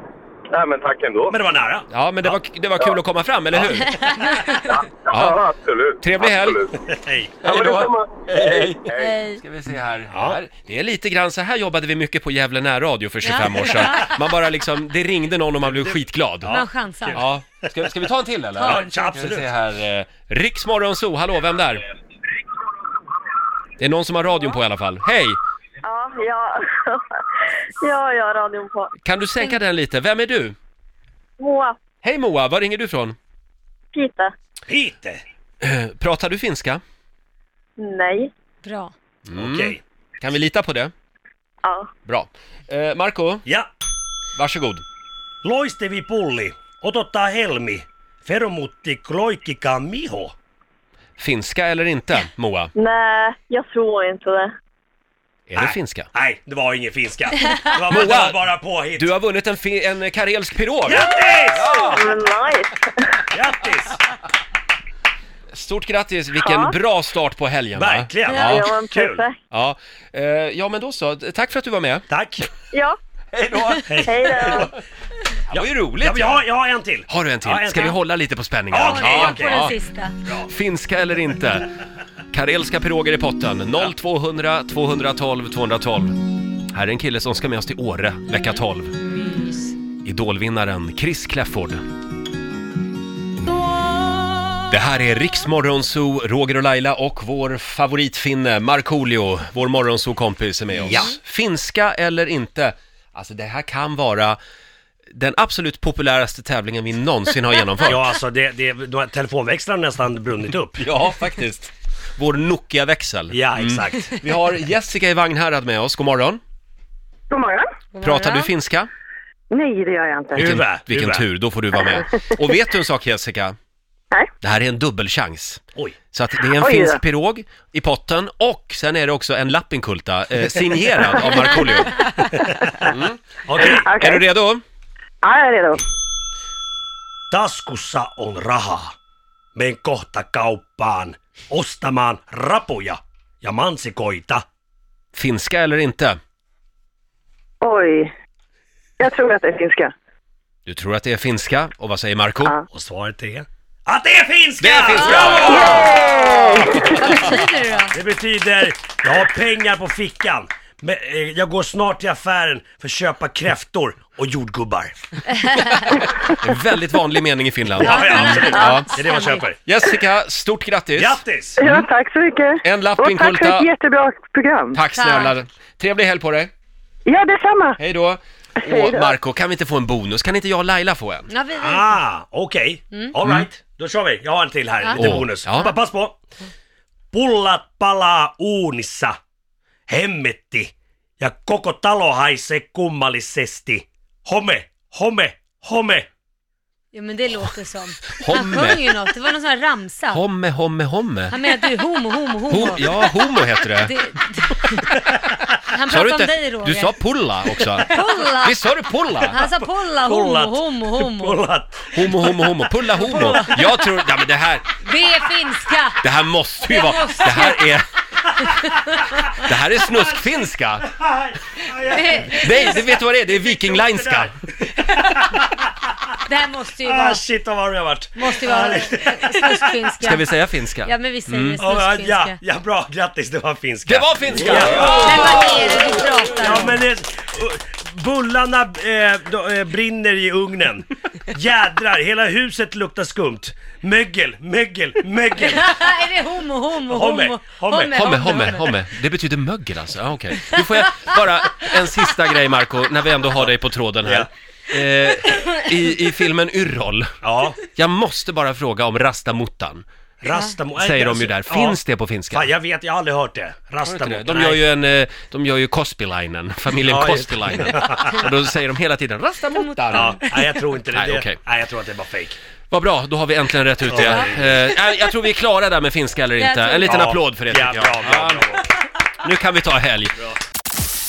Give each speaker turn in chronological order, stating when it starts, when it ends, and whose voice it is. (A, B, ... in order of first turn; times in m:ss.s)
0:00.5-0:01.4 A
0:01.3-0:02.4 B
0:01.9-0:04.1 C
0:04.0-0:04.7 D
0:04.5-0:06.7 A
0:05.1-0:05.4 C
0:06.0-0:06.6 C
0:06.8-0:07.4 B
0:07.4-0:09.2 A
0:07.4-0:16.6 C
0:09.0-0:09.4 D
0:10.1-0:10.4 B
0:13.2-0:14.2 D
0:15.8-0:17.3 B
0:16.5-0:17.2 D
0:17.1-0:21.8 C
0:18.6-0:19.0 D
0:18.6-0:19.5 B
0:23.8-0:25.4 C
0:25.8-0:27.0 E
0:27.8-0:28.9 E
0:29.0-0:30.6 C
0:31.4-0:31.8 E
0:32.0-0:33.2 C
0:33.9-0:34.3 E
0:34.7-0:35.2 B
0:35.6-0:36.8 C
0:37.8-0:38.3 E
0:38.6-0:38.9 D
0:39.2-0:40.9 C
0:39.3-0:39.8 B
0:42.0-0:43.4 C
0:44.4-0:44.8 C
0:45.4-0:50.3 B
0:51.2-0:52.7 C
0:52.7-0:54.5 E
0:55.5-0:56.1 C
0:55.6-0:59.1 B
0:57.8-0:58.4 C
0:58.9-1:02.1 C
1:00.8-1:01.9 B
1:01.9-1:03.0 E
1:03.3-1:04.0 B
1:05.5-1:08.7 C
1:06.4-1:06.7 E
1:07.7-1:09.2 B
1:08.4-1:09.3 E
1:09.5-1:12.0 C
1:12.1-1:12.5 B
1:13.3-1:14.7 C
1:13.8-1:14.7 B
1:14.1-1:14.7 E
1:15.5-1:16.4 C
1:15.5-1:18.0 B
1:17.1-1:19.7 C
1:18.7-1:20.5 B
1:18.8-1:20.1 D
1:20.4-1:21.7 C
1:22.3-1:26.2 C
1:26.7-1:29.0 C
1:29.0-1:29.8 D
1:30.0-1:31.8 C
1:34.7-1:44.4 C
1:40.7-1:41.1 B
1:45.1-1:48.0 C
1:47.8-1:50.9 B
1:50.8-1:56.4 C
1:53.3-1:54.2 B
1:57.3-1:57.7 E
1:57.9-1:58.5 D
1:58.0-1:58.9 C
1:59.5-2:00.4 E
2:00.3-2:01.2 B
2:00.3-2:03.6 C
2:04.4-2:14.6 C
2:06.6-2:07.0 E
2:12.3-2:12.9 B
2:13.4-2:13.9 B
2:13.8-2:14.2 E
2:15.2-2:15.8 E
2:17.3-2:18.9 B
2:19.5-2:24.4 B
2:25.1-2:26.2 C
2:27.6-2:28.1 E
2:29.0-2:29.9 E
2:30.6-2:32.6 C
2:32.7-2:36.2 B
2:34.6-2:37.1 C
2:34.9-2:35.8 D
2:35.5-2:37.0 E
2:36.7-2:38.0 D
2:37.9-2:44.9 B
2:45.8-2:51.9 C
2:47.8-2:49.6 B
2:47.8-2:49.4 D
2:51.0-2:51.6 B
2:51.6-2:54.8 E
2:52.6-2:53.7 C
2:54.7-2:56.5 C
2:54.9-2:55.3 D
2:57.0-2:57.8 E
2:57.8-3:01.3 C
2:58.6-2:59.1 E
3:01.3-3:02.0 D
3:01.6-3:06.2 B
3:04.8-3:05.2 D
3:05.0-3:05.7 C
3:07.1-3:09.2 B
3:09.9-3:16.1 B
3:16.9-3:20.2 D
3:18.1-3:18.8 C
3:20.1-3:21.3 C
3:21.3-3:25.2 D
3:22.5-3:23.9 C
3:25.7-3:26.9 D
3:25.9-3:27.9 C
3:27.9-3:28.6 D
3:28.4-3:29.4 C
3:29.1-3:31.4 D
3:30.0-3:33.5 B
3:31.9-3:34.7 C
3:33.0-3:33.6 D
3:34.8-3:36.0 D
3:36.0-3:37.9 C
3:36.6-3:37.7 D
3:38.4-3:39.4 D
3:39.4-3:40.9 C
3:40.9-3:45.5 B
3:41.8-3:42.8 D
3:42.3-3:44.3 C
3:45.0-3:45.4 D
3:46.2-3:47.2 D
3:46.8-3:49.8 B
3:48.1-3:50.3 D
3:50.0-3:51.6 C
3:50.8-3:52.4 D
3:51.6-4:05.7 B
3:53.8-3:55.8 C
3:54.6-3:56.8 D
4:05.4-4:08.7 D
4:06.9-4:08.0 B
4:07.9-4:19.8 C
4:14.0-4:14.3 B
4:17.2-4:17.6 B
4:20.2-4:21.8 B
4:20.8-4:22.5 C
4:22.3-4:24.6 B
4:23.8-4:30.2 C
4:26.8-4:28.2 B
4:29.5-4:30.6 D
4:29.9-4:32.4 B
4:30.9-4:31.4 C
4:32.7-4:38.4 C
4:33.9-4:34.6 B
4:34.0-4:34.2 D
4:36.4-4:37.0 D
4:36.9-4:38.8 B
4:39.2-4:40.2 C